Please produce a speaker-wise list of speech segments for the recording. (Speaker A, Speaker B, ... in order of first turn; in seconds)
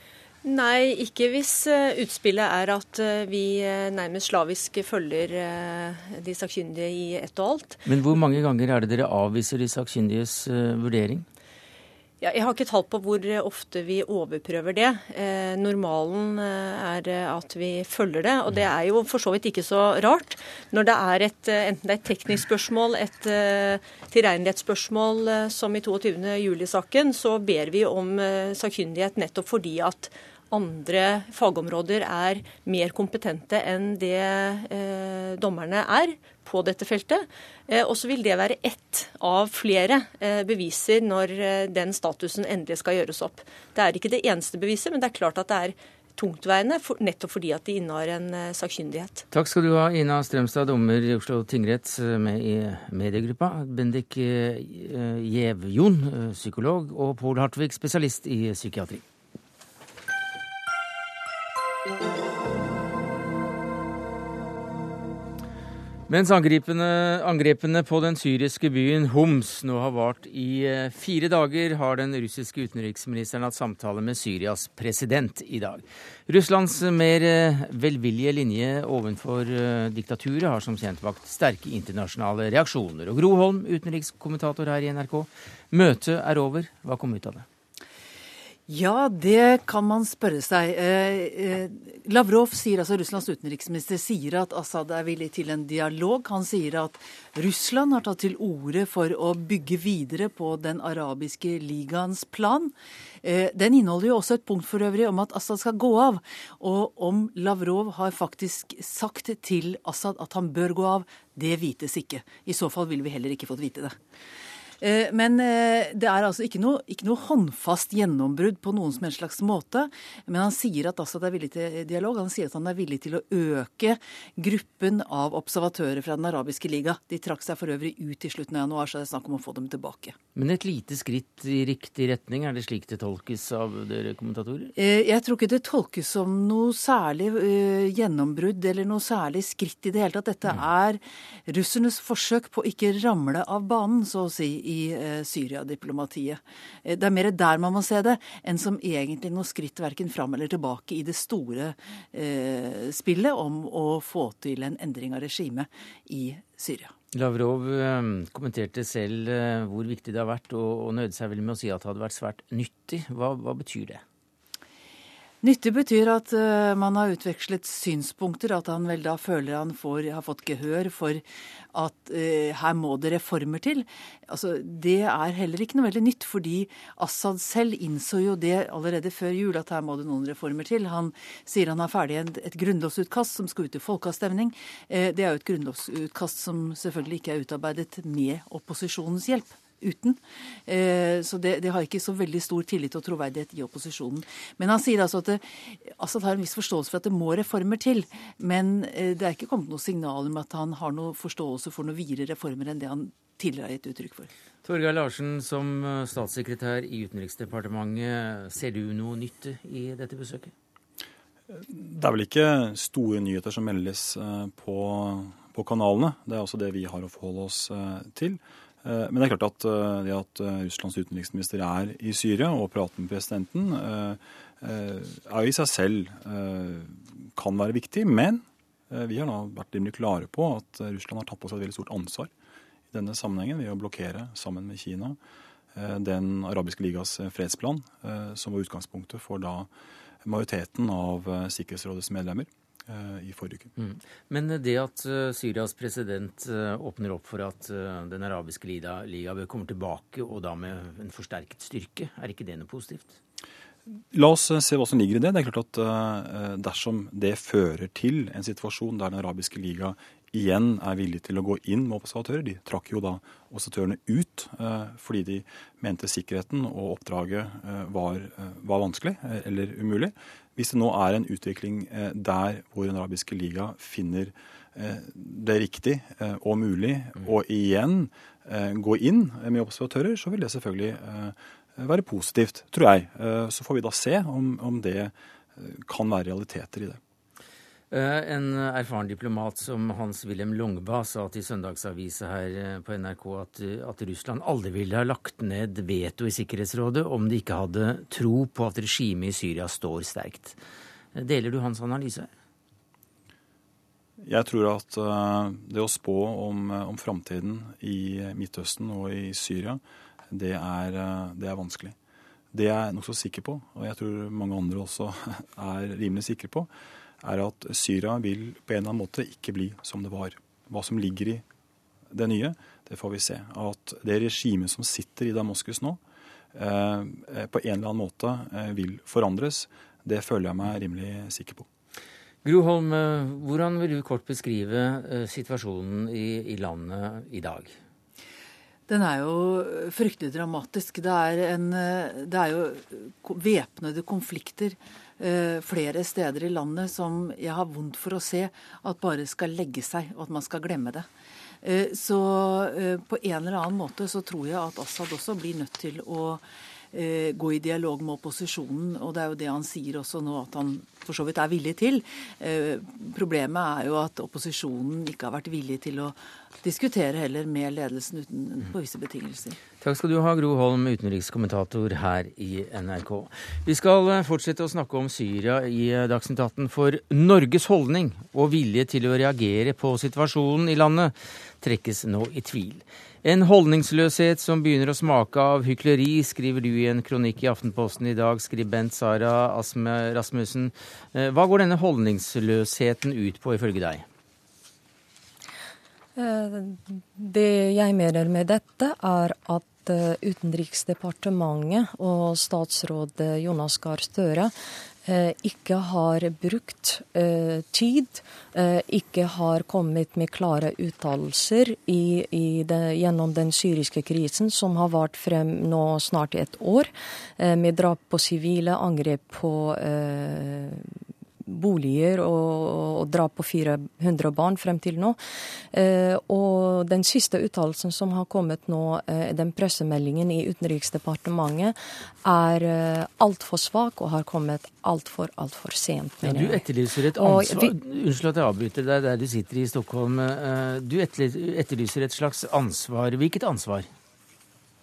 Speaker A: 0.4-7.8, 12.2-49.2
Speaker B: 7.8-11.2, 49.3-59.0, 66.1-87.5, 130.3-134.7, 157.1-164.0, 204.6-210.5, 243.8-253.2, 287.9-300.6, 301.1-302.3, 332.4-337.7, 369.8-394.0, 436.2-443.9
Speaker C: 88.7-114.0, 114.8-130.2, 134.8-156.9, 165.4-204.3, 338.9-351.1, 351.6-369.6
Speaker D: 211.5-232.3, 232.9-235.2, 235.7-239.7, 240.2-243.7, 254.1-287.0, 304.2-311.9, 312.5-316.7, 317.2-321.4, 322.1-326.0, 326.5-331.7
Speaker E: 396.2-404.5, 405.1-420.9, 421.4-425.2, 425.7-437.8